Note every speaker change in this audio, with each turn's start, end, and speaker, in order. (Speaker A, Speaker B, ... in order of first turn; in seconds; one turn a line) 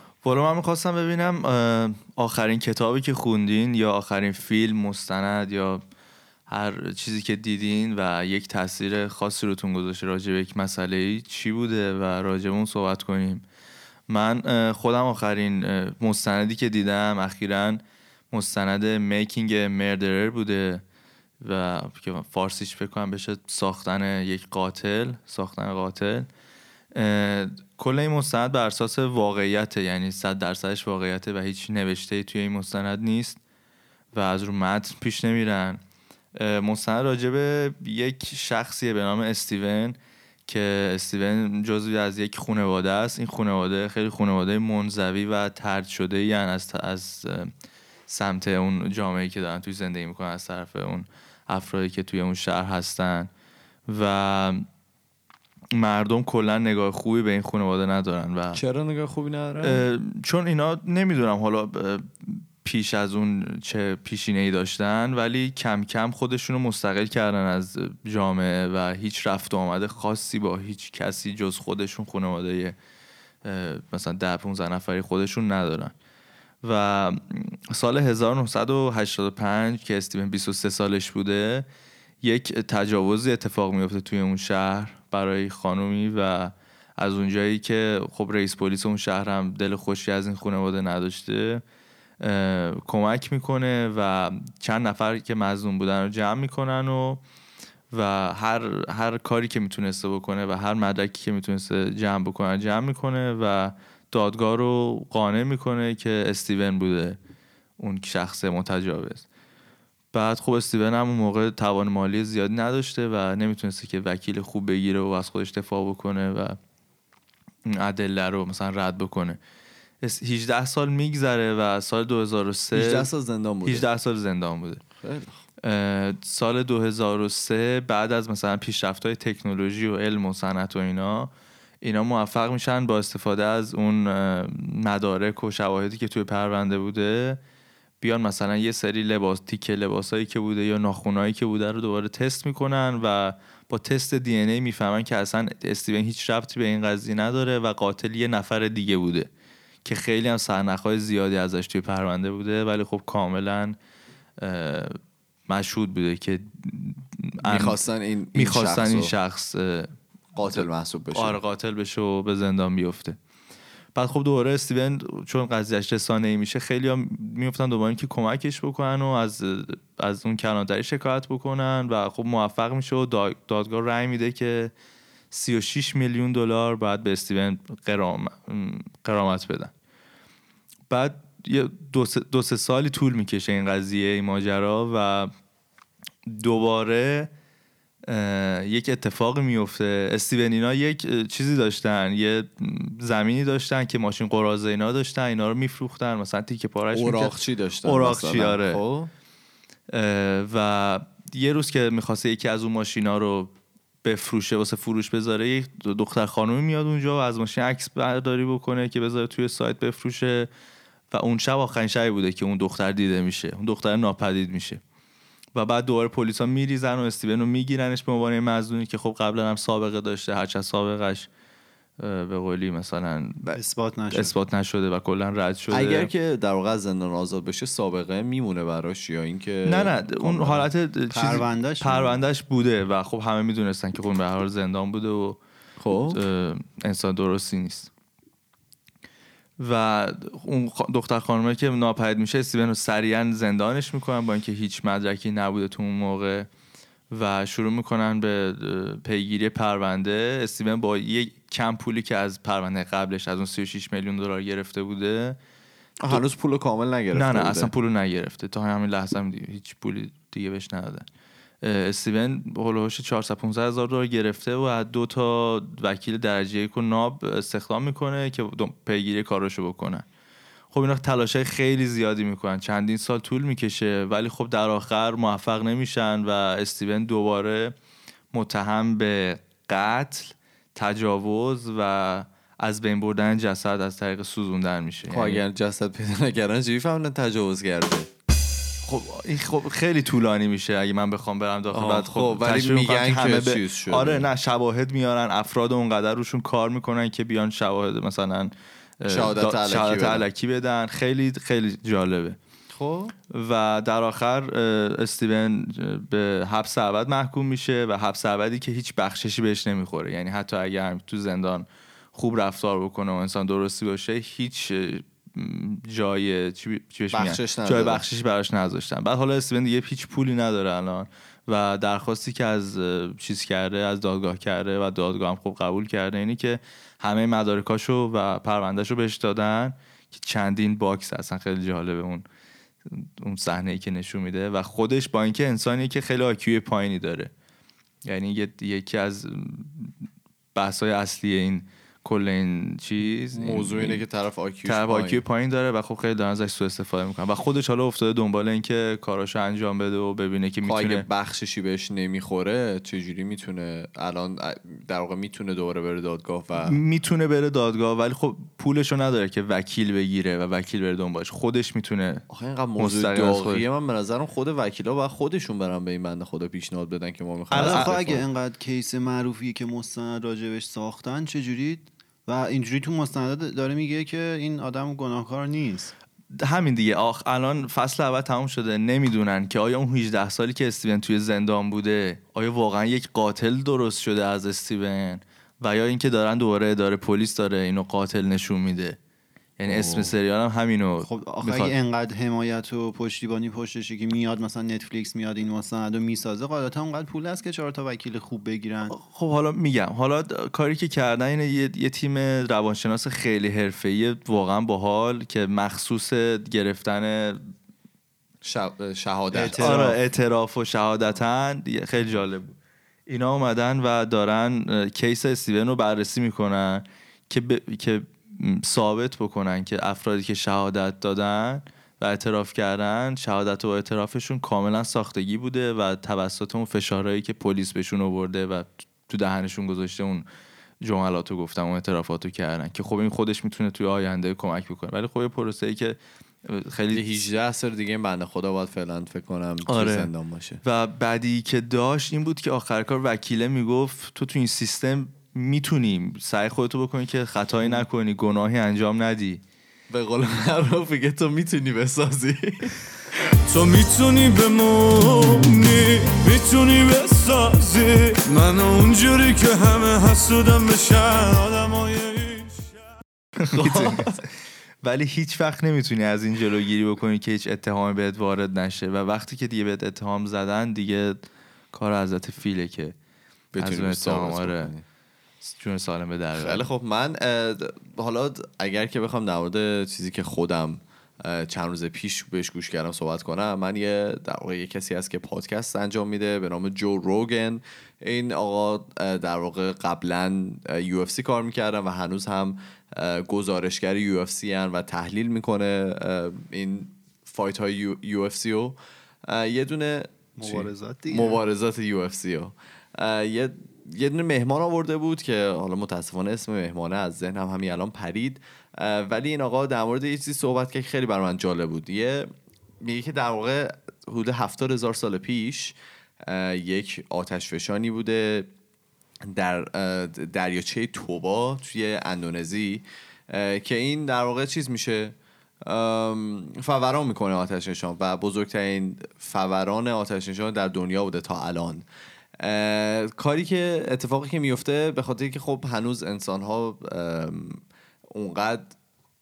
Speaker A: 0.2-5.8
Speaker A: 6.5-13.4
Speaker A: 14.1-20.8
Speaker A: 21.4-26.3
Speaker A: 26.9-33.4
Speaker A: 34.1-35.8
Speaker A: 36.4-47.5
Speaker A: 48.1-53.3
Speaker A: 53.9-54.6
Speaker A: 55.7-58.6
Speaker B: 58.5-59.8
Speaker A: 59.6-72.8
Speaker A: 73.4-75.9
Speaker A: 76.6-81.7
Speaker A: 82.2-91.6
Speaker A: 92.2-97.2
Speaker A: 97.9-107.2
Speaker A: 107.8-109.2
Speaker A: 110.1-116.6
Speaker A: 117.7-119.4
Speaker A: 120.0-123.1
Speaker B: 122.7-123.8
Speaker A: 123.6-124.8
Speaker B: 125.0-125.4
Speaker A: 125.6-131.3
Speaker A: 131.8-137.4
Speaker A: 138.0-149.3
Speaker A: 149.8-153.8
Speaker A: 154.4-157.8
Speaker B: 157.4-159.1
Speaker A: 158.3-159.9
Speaker B: 160.3-161.4
Speaker A: 160.5-163.2
Speaker A: 163.9-174.7
Speaker A: 175.3-179.7
Speaker A: 180.9-185.3
Speaker A: 186.3-187.3
Speaker A: 188.1-198.8
Speaker B: 196.9-199.1
Speaker A: 199.9-203.5
Speaker A: 204.0-210.5
Speaker A: 211.1-214.8
Speaker A: 215.5-221.3
Speaker A: 222.0-223.6
Speaker C: 223.5-224.3
Speaker A: 224.1-226.1
Speaker B: 225.7-230.7
Speaker A: 229.7-235.4
Speaker C: 231.1-232.2
Speaker B: 235.8-236.2
Speaker A: 236.1-237.9
Speaker A: 239.6-246.5
Speaker A: 247.1-255.4
Speaker B: 256.0-257.7
Speaker A: 257.1-261.1
Speaker A: 261.6-270.1
Speaker A: 270.7-277.7
Speaker A: 278.3-285.4
Speaker B: 285.1-288.1
Speaker A: 288.8-302.4
Speaker B: 291.7-294.3
Speaker B: 299.1-300.3
Speaker B: 302.7-303.1
Speaker A: 303.3-332.2
Speaker B: 317.1-318.0
Speaker A: 332.9-337.3
Speaker A: 338.0-339.9
Speaker A: 340.5-344.0
Speaker B: 343.3-345.2
Speaker A: 344.6-351.1
Speaker B: 350.6-356.8
Speaker A: 356.6-362.2
Speaker B: 362.3-368.2
Speaker A: 362.8-363.6
Speaker A: 367.5-368.1
Speaker C: 367.5-375.9
Speaker A: 376.3-389.0
Speaker A: 389.6-391.7
Speaker B: 389.7-390.1
Speaker C: 391.0-398.9
Speaker A: 398.9-407.4
Speaker B: 408.4-410.0
Speaker C: 409.3-409.9
Speaker A: 409.5-412.5
Speaker A: 413.1-430.2
Speaker A: 430.8-437.2
Speaker B: 436.9-440.6
Speaker A: 439.6-440.1
Speaker A: 440.6-449.4
Speaker B: 449.9-452.8
Speaker D: 453.5-462.8
Speaker A: 463.4-464.2
Speaker B: 463.5-464.2
Speaker A: 464.8-472.9
Speaker B: 473.5-474.8
Speaker A: 473.6-474.7
Speaker A: 475.4-476.6
Speaker B: 476.3-512.3
Speaker C: 500.4-501.4
Speaker B: 512.8-518.5
Speaker B: 519.3-531.8
Speaker B: 532.4-538.7